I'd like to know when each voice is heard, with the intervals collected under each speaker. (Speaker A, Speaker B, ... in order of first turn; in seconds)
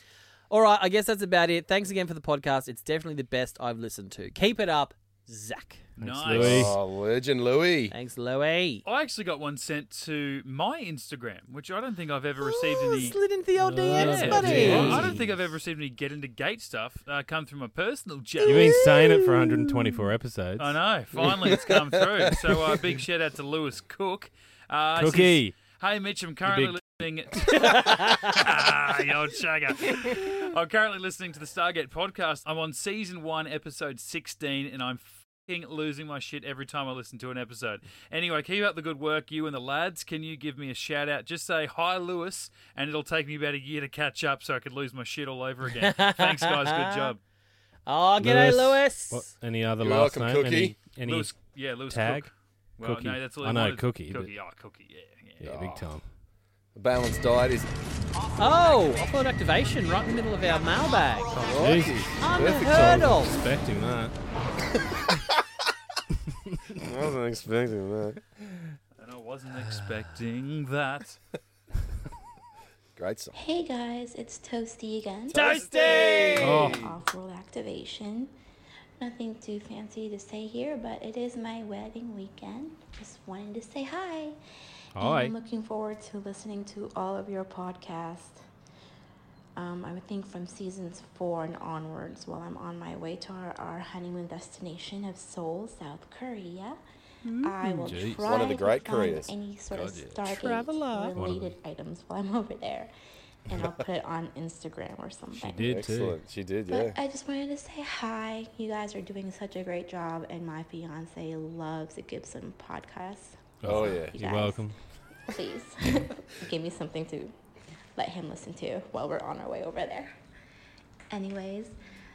Speaker A: 0.5-5.9, 7.9-8.8, 12.4-15.2, 18.4-19.7, 27.8-28.3, 45.8-47.1, 47.9-49.3, 58.4-61.4, 62.2-63.3, 75.3-76.8, 97.2-97.9, 100.3-101.1
Speaker B: 6.0-6.7, 13.6-15.3, 18.4-20.8, 24.9-25.6, 26.4-26.8, 48.2-51.3, 51.9-52.3, 52.8-54.3, 55.4-56.0, 61.4-64.1, 76.4-76.9, 84.9-85.3, 97.8-98.4, 99.7-100.2, 101.1-101.5, 105.4-106.2, 113.6-114.7
Speaker C: 6.0-6.8, 8.8-13.2, 13.9-18.8, 20.6-47.2, 51.0-55.5, 69.0-71.2, 75.9-76.4
Speaker D: 6.3-7.9, 14.4-15.0, 21.2-22.6, 49.8-50.8, 55.4-55.8, 56.7-57.7, 61.3-62.9, 65.1-65.4, 66.8-68.2, 73.0-73.4, 75.3-76.8, 98.2-99.3, 105.5-107.0, 113.6-114.2
Speaker E: 73.3-75.6, 76.5-78.3, 79.0-84.4, 85.0-88.4, 89.5-96.8, 97.4-102.9, 103.5-105.6, 106.7-114.7, 115.3-117.3, 118.0-120.1, 121.1-121.7